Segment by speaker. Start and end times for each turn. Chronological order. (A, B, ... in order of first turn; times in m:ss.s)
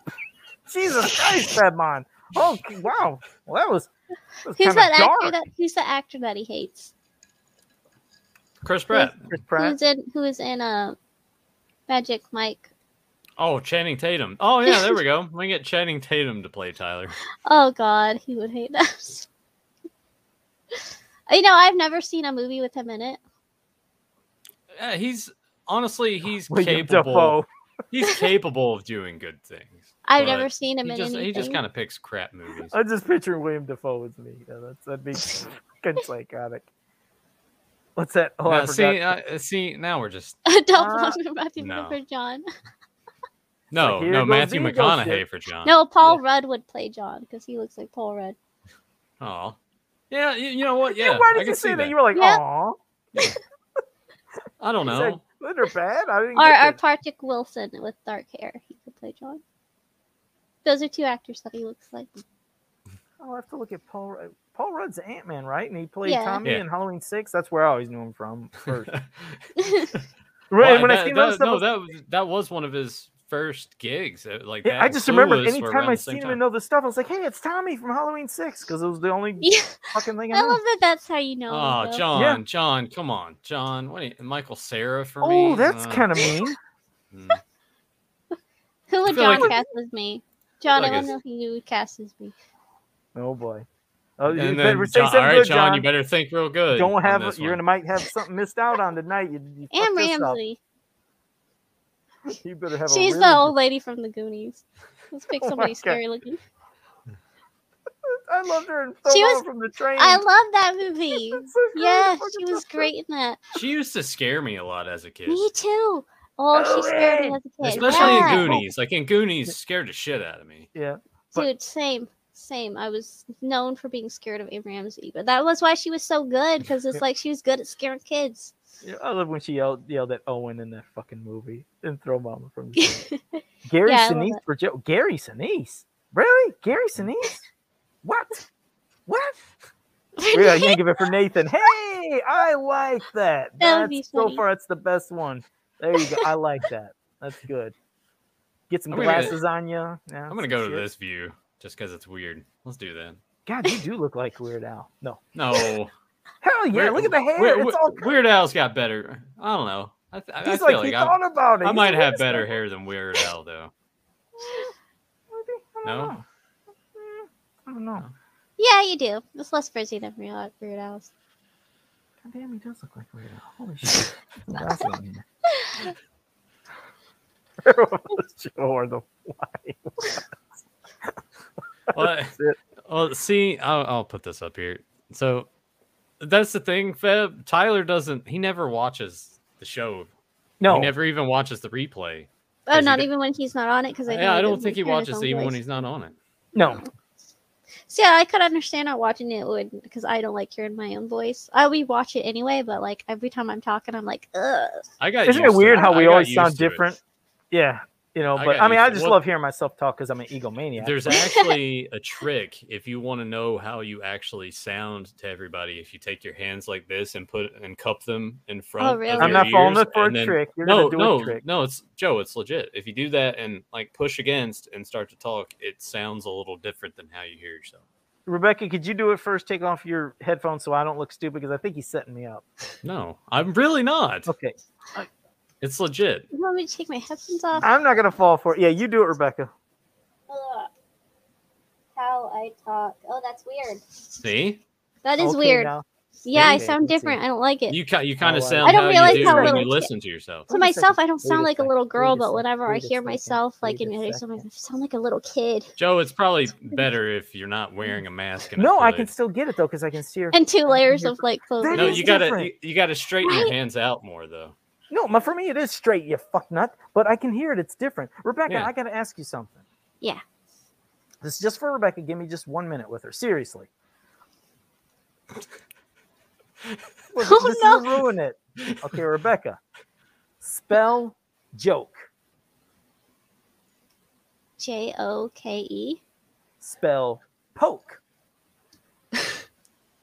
0:00.7-0:03.9 A
0:04.4-0:05.4 A
0:04.5-0:06.9 B
0:08.6-0:09.2 C
0:08.9-0:11.0 B
0:09.2-0:09.8 A
0:11.9-0:12.7 B
0:13.4-0:17.2 C
0:14.6-0:15.0 B
0:17.4-0:19.3 B
0:20.7-0:23.2 B
0:24.8-0:27.4 C
0:26.5-0:27.5 A
0:27.9-0:32.7 C
0:30.0-0:31.6 B
0:32.7-0:36.6 A
0:38.0-0:39.1 A
0:38.4-0:40.4 C
0:40.4-0:42.4 B
0:40.7-0:41.2 A
0:41.6-0:42.0 C
0:43.7-0:45.7 C
0:43.8-0:45.2 A
0:45.6-0:48.3 B
0:49.2-0:49.6 C
0:50.1-0:51.9 C
0:50.9-0:52.8 A
0:52.1-0:52.4 B
0:54.6-0:55.2 C
0:54.8-0:56.8 A
0:56.4-0:59.4 B
1:00.6-1:02.2 B
1:03.2-1:08.9 A
1:06.0-1:06.4 B
1:08.9-1:09.4 C
1:09.6-1:09.9 B
1:10.5-1:11.6 A
1:10.6-1:16.4 C
1:14.6-1:20.6 A
1:19.4-1:22.0 B
1:21.5-1:26.3 C
1:22.1-1:22.4 A
1:25.2-1:26.6 A
1:27.1-1:27.4 C
1:28.9-1:32.3 B
1:29.1-1:29.5 C
1:29.3-1:29.6 A
1:30.7-1:31.1 C
1:33.1-1:33.6 A
1:34.2-1:35.8 A
1:34.3-1:37.6 C
1:36.7-1:40.4 A
1:39.7-1:40.6 B
1:42.3-1:43.5 A
1:42.9-1:46.4 B
1:45.3-1:46.0 A
1:48.1-1:50.2 A
1:49.1-1:49.4 B
1:50.0-1:53.4 B
1:51.3-1:52.9 A
1:53.5-1:55.4 C
1:55.3-1:58.5 B
1:56.5-1:58.6 A
1:57.6-2:00.7 C
2:00.7-2:01.5 A
2:01.3-2:08.5 B
2:08.8-2:13.0 A
2:12.8-2:14.4 B
2:13.6-2:17.4 A
2:18.0-2:18.4 A
2:19.1-2:19.4 A
2:20.2-2:20.8 B
2:20.3-2:27.7 A
2:23.6-2:24.4 B
2:26.0-2:26.2 B
2:28.7-2:30.8 A
2:28.9-2:29.4 C
2:30.3-2:33.2 C
2:33.4-2:35.2 A
2:35.3-2:35.9 C
2:36.4-2:38.2 A
2:36.7-2:43.7 C
2:40.4-2:42.5 A
2:44.4-2:44.7 A
2:45.3-2:46.2 A
2:45.8-2:46.1 C
2:46.9-2:48.0 A
2:48.6-2:51.1 B
2:52.2-2:55.2 A
2:55.6-2:55.9 B
2:57.6-3:00.2 A
3:01.9-3:02.6 A
3:01.9-3:02.4 C
3:02.9-3:05.5 C
3:06.2-3:10.1 C
3:10.6-3:10.9 A
3:10.7-3:13.1 C
3:12.7-3:15.6 B
3:14.1-3:16.2 C
3:16.5-3:16.8 A
3:17.9-3:24.8 B
3:25.0-3:26.9 C
3:25.2-3:27.0 A
3:27.5-3:31.1 A
3:28.3-3:29.2 C
3:30.8-3:47.8 C
3:31.1-3:31.5 B
3:38.8-3:39.5 B
3:39.2-3:41.4 A
3:48.2-3:52.4 A
3:52.8-3:54.3 C
3:54.3-3:55.1 A
3:55.6-3:56.3 C
3:56.3-3:57.7 B
3:57.6-3:59.5 A
4:00.3-4:00.7 B
4:01.9-4:03.8 B
4:04.2-4:04.6 C
4:05.0-4:05.7 B
4:05.2-4:07.2 A
4:06.2-4:07.8 B
4:07.7-4:10.5 C
4:08.2-4:09.7 A
4:08.6-4:09.9 B
4:10.5-4:14.4 A
4:10.5-4:15.7 B
4:15.8-4:19.1 C
4:18.6-4:22.5 A
4:20.3-4:22.2 B
4:21.7-4:24.5 C
4:23.2-4:23.5 B
4:24.9-4:29.6 A
4:31.2-4:33.7 A
4:37.1-4:39.6 A
4:37.2-4:37.9 B
4:40.4-4:42.1 A
4:44.6-4:46.0 B
4:46.6-4:48.0 A